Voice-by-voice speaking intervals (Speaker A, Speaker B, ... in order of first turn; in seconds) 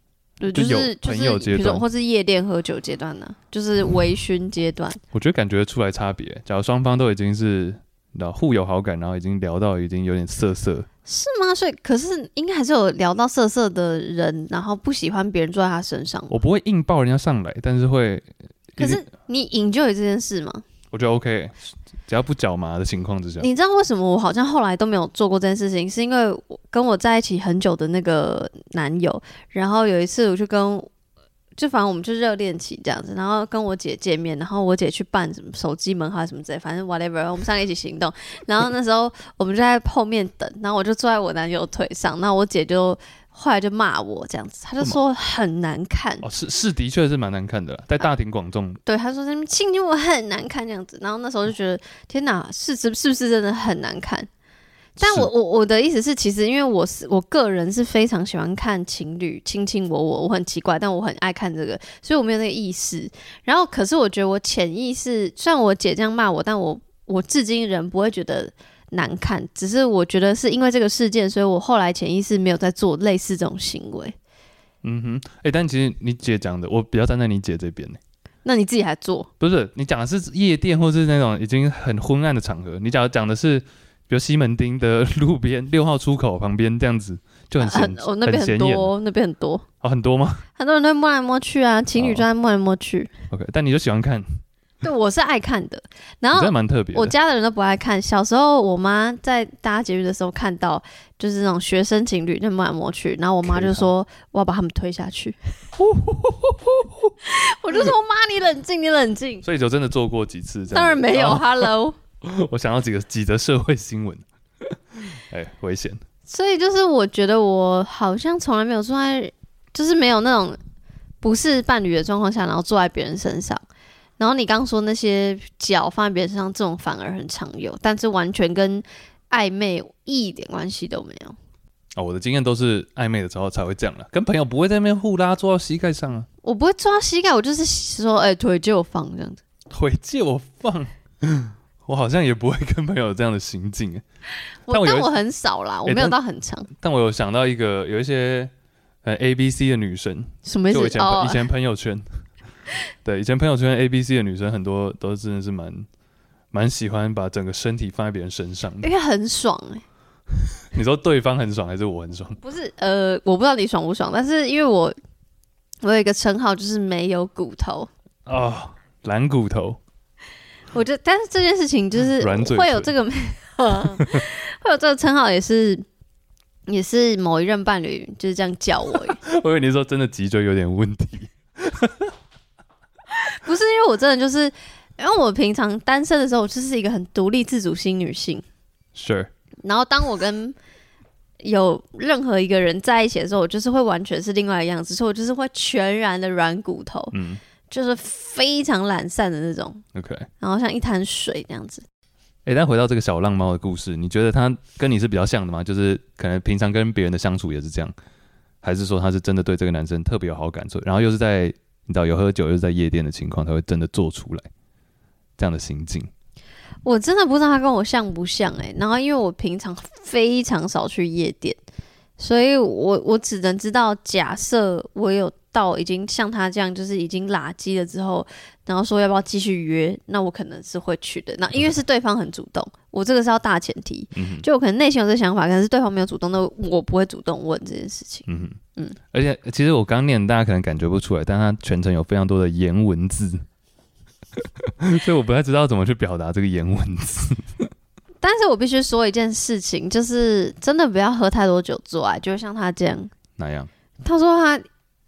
Speaker A: 0.4-5.0, 11.1-16.4, 18.8-20.6, 23.4-30.9, 31.6-46.2, 48.9-54.3, 55.0-74.2, 78.4-79.3, 87.6-89.7, 90.6-93.1, 94.8-105.4, 107.2-109.5, 110.7-112.0, 116.3-120.6, 121.2-123.6, 124.2-131.4, 136.4-139.4, 144.7-146.7, 150.4-151.4, 158.8-159.8, 162.4-165.0, 165.8-167.9, 170.7-175.8, 176.7-179.2, 183.1-188.4, 189.6-190.6, 191.4-197.1, 197.7-199.8, 200.4-201.8, 216.8-221.6, 222.2-239.0, 248.2-253.1, 254.0-254.7
Speaker B: 0.5-1.9, 5.1-10.9, 16.3-19.1, 20.9-23.5, 46.2-48.8, 55.0-55.3, 74.8-78.0, 79.4-88.9, 89.8-90.5, 92.0-92.3, 93.3-94.2, 96.3-97.1, 103.4-103.9, 105.8-107.1, 109.4-114.2, 115.0-116.0, 132.0-136.3, 139.7-144.0, 144.7-145.1, 145.9-146.2, 146.8-148.5, 149.0-152.1, 153.1-155.9, 156.5-158.9, 160.7-162.4, 168.3-169.8, 172.2-172.9, 174.0-174.2, 179.2-182.1, 188.9-189.3, 197.1-197.4, 199.9-200.3, 202.4-207.9, 208.6-214.5, 215.4-216.1, 234.1-234.5, 238.3-238.6, 239.1-243.4, 244.4-247.7, 253.4-253.7